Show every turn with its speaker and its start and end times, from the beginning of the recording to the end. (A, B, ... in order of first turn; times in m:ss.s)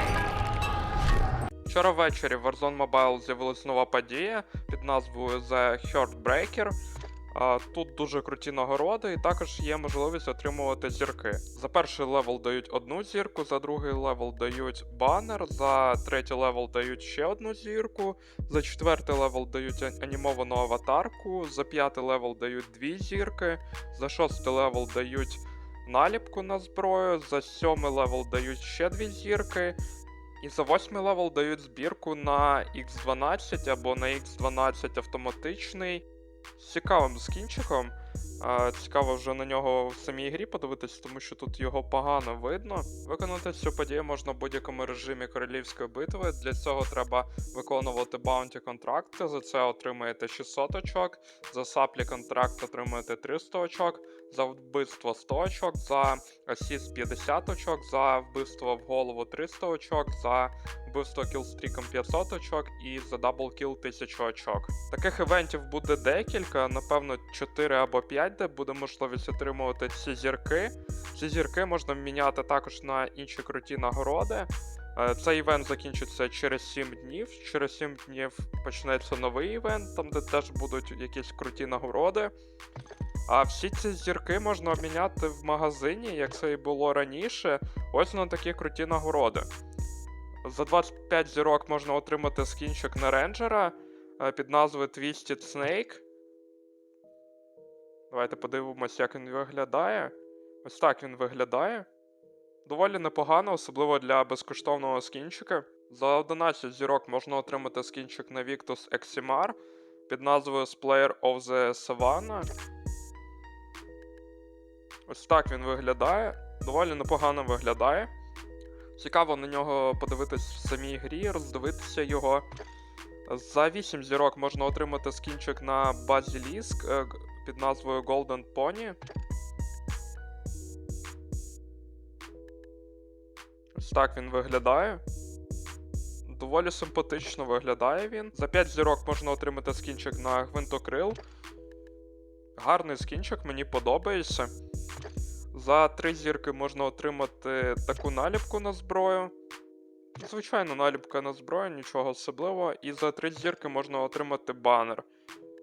0:01.6-0:06.7 A
0:07.3-0:29.8 A
0:30.4-0:36.0 A
0:36.6-1:22.3 A
1:23.3-1:29.5 A
1:30.4-1:36.0 A
1:38.1-1:41.9 A
1:42.6-1:49.6 A
1:50.1-1:52.5 A
1:55.1-1:58.1 A
1:59.0-2:02.4 A
2:03.3-2:09.0 A
2:13.8-2:15.0 A
2:16.2-2:21.2 A
2:22.6-2:24.5 A
2:25.5-2:29.3 A
2:30.2-2:35.1 A